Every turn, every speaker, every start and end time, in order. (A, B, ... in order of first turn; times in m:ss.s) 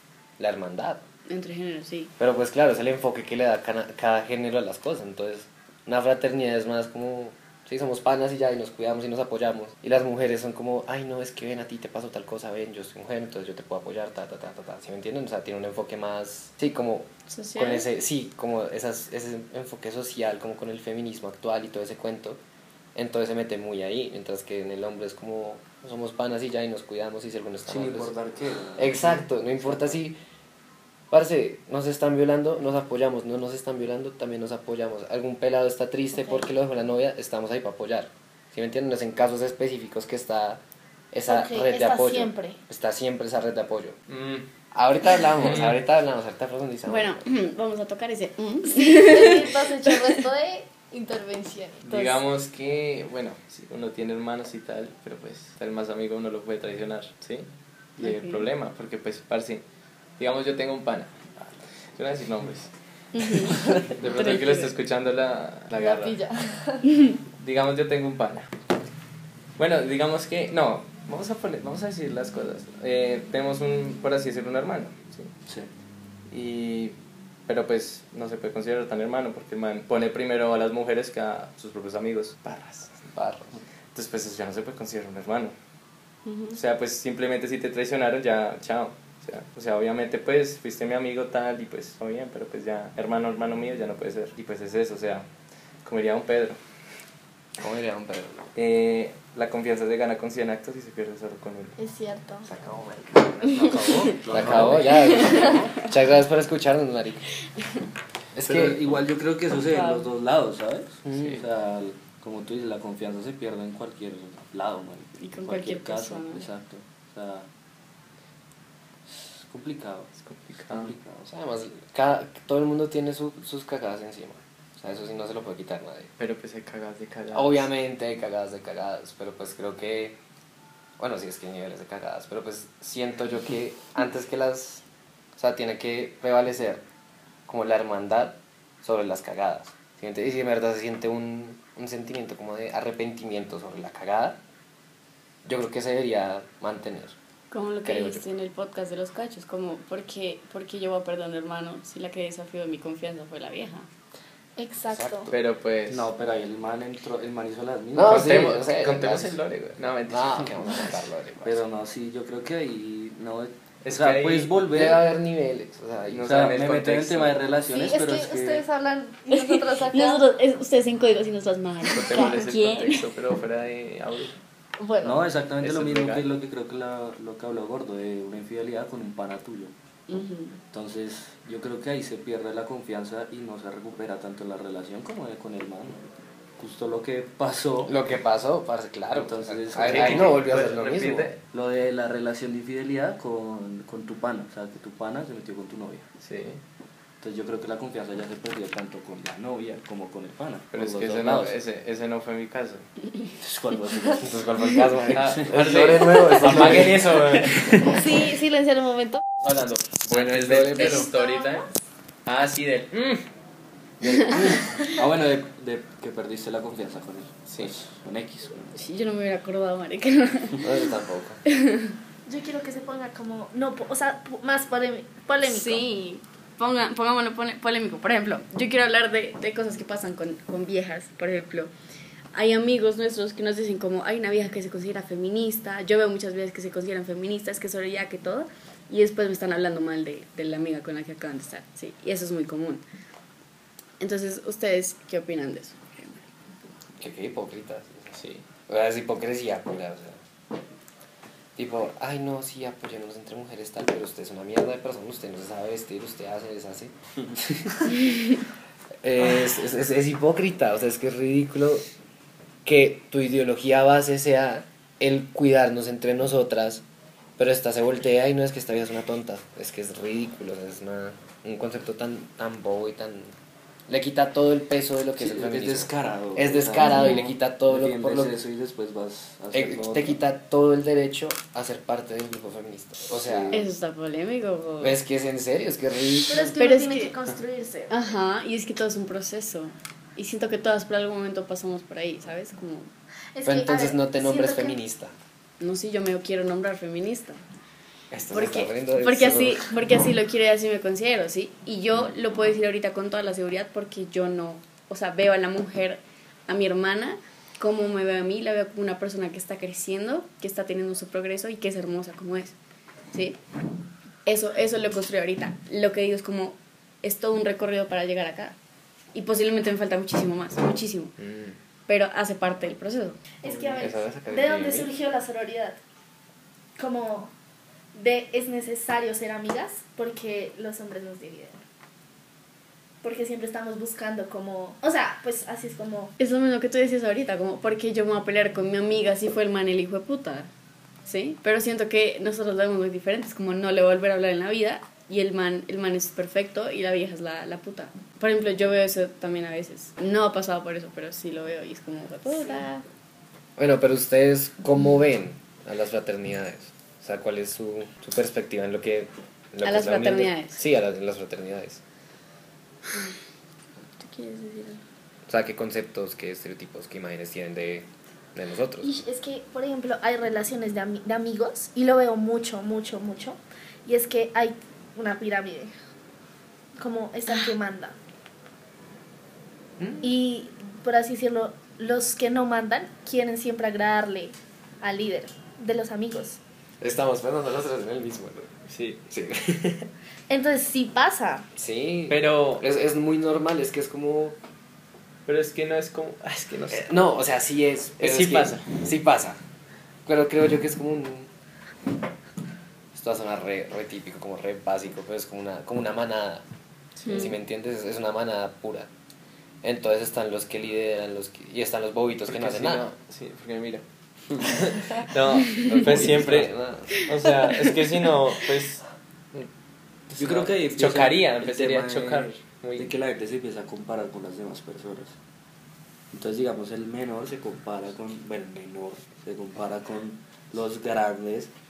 0:00.4-0:01.0 A
0:01.3-0:02.1 B
0:02.2-0:22.4 A
0:17.3-0:17.9 B
0:23.0-0:28.1 A
0:27.7-0:29.8 C
0:28.8-0:30.2 A
0:31.1-0:44.0 A
0:41.3-0:42.6 D
0:44.1-0:44.5 E
0:44.7-0:47.3 A
0:45.4-0:45.8 E
0:46.9-0:49.9 B
0:48.7-0:52.2 D
0:51.8-0:57.5 E
0:58.0-0:59.6 E
0:58.0-0:58.5 B
1:00.2-1:02.7 E
1:03.1-1:04.7 B
1:03.8-1:06.2 E
1:05.8-1:06.8 D
1:07.4-1:08.5 E
1:09.6-1:15.3 E
1:16.3-1:17.0 E
1:17.5-1:23.4 E
1:23.2-1:23.4 A
1:23.9-1:25.5 E
1:26.3-1:26.6 B
1:26.5-1:35.3 E
1:35.8-1:36.6 E
1:37.6-1:38.5 A
1:38.6-1:41.8 E
1:41.8-1:42.5 D
1:42.4-1:47.3 A
1:44.2-1:45.3 C
1:44.5-1:44.8 E
1:45.1-1:45.6 B
1:48.4-1:48.8 A
1:48.4-1:57.5 C
1:51.1-1:51.4 A
1:51.2-1:51.4 E
1:55.2-1:56.5 B
1:59.2-2:00.1 C
2:00.2-2:00.9 E
2:00.7-2:01.3 C
2:01.3-2:06.1 A
2:06.2-2:07.7 E
2:07.3-2:10.2 A
2:11.0-2:14.8 A
2:15.4-2:16.8 A
2:17.5-2:24.4 A
2:25.4-2:27.2 A
2:27.5-2:33.9 B
2:27.8-2:28.2 A
2:34.6-2:35.3 D
2:34.9-2:35.4 A
2:35.3-2:36.1 E
2:35.9-2:38.4 C
2:37.9-2:39.4 A
2:38.1-2:41.0 E
2:40.1-2:41.6 A
2:41.4-2:45.0 C
2:43.8-2:44.5 E
2:44.7-2:46.3 A
2:46.1-2:47.4 E
2:46.2-2:48.6 C
2:47.7-2:50.3 D
2:49.3-2:53.0 B
2:51.9-2:54.4 E
2:52.1-2:52.4 D
2:54.8-2:55.2 D
2:55.0-2:59.7 C
2:55.6-2:56.2 E
3:00.1-3:00.6 B
3:00.7-3:06.0 C
3:06.6-3:08.0 C
3:07.9-3:11.3 A
3:09.1-3:10.4 C
3:09.8-3:11.4 E
3:11.5-3:16.1 C
3:16.2-3:16.6 E
3:17.2-3:21.6 C
3:20.7-3:22.9 E
3:23.4-3:24.3 C
3:24.2-3:28.0 A
3:25.1-3:27.9 E
3:26.5-3:26.9 C
3:27.8-3:29.2 D
3:29.4-3:31.7 E
3:30.1-3:31.1 A
3:30.8-3:31.6 D
3:32.3-3:33.2 E
3:34.0-3:38.7 C
3:37.5-3:37.7 E
3:38.7-3:40.7 B
3:40.6-3:41.4 A
3:41.5-3:42.0 B
3:42.3-3:45.9 D
3:45.4-3:51.7 B
3:52.3-4:02.8 B
4:04.0-4:06.2 B
4:07.0-4:08.2 A
4:08.1-4:08.4 E
4:08.7-4:10.2 A
4:11.6-4:18.1 A
4:19.0-4:21.8 A
4:22.6-4:26.8 A
4:27.4-4:33.3 A
4:33.9-4:38.4 A
4:35.2-4:40.2 C
4:36.8-4:37.2 B
4:39.5-4:43.6 A
4:43.2-4:43.7 C
4:43.5-4:45.0 B
4:44.8-4:46.6 A
4:46.3-4:48.0 D
4:46.6-4:47.2 B
4:47.9-4:52.9 B
4:53.4-4:54.8 D
4:53.4-4:55.2 A
4:55.6-4:57.4 B
4:58.1-4:59.7 A
4:58.3-5:12.6 B
5:13.1-5:13.4 B
5:14.2-5:18.6 B
5:19.1-5:21.2 B
5:21.2-5:21.6 A
5:21.9-5:23.2 B
5:23.4-5:25.8 D
5:23.8-5:24.9 A
5:26.8-5:27.3 D
5:27.9-5:31.6 D
5:33.0-5:36.1 D
5:36.2-5:40.5 B
5:41.1-5:52.8 B
5:53.6-6:01.8 A
5:59.6-6:00.6 B
6:04.0-6:04.8 B
6:05.3-6:08.9 A
6:08.8-6:15.7 D
6:16.8-6:18.0 D
6:19.8-6:20.1 A
6:20.0-6:26.4 D
6:26.8-6:28.5 A
6:28.7-6:29.0 E
6:29.1-6:29.9 A
6:30.3-6:31.5 D
6:31.6-6:34.4 A
6:32.1-6:32.6 E
6:35.3-6:37.1 E
6:36.7-6:39.4 A
6:38.0-6:38.8 E
6:40.1-6:41.3 A
6:42.9-6:46.4 A
6:47.0-6:47.4 E
6:47.0-6:47.3 B
6:47.1-6:48.9 A
6:49.6-6:52.8 A
6:52.3-6:53.8 E
6:54.3-6:54.6 C
6:54.4-6:59.5 E
6:55.6-6:57.1 A
7:00.1-7:02.9 E
7:00.2-7:05.2 C
7:06.1-7:11.5 C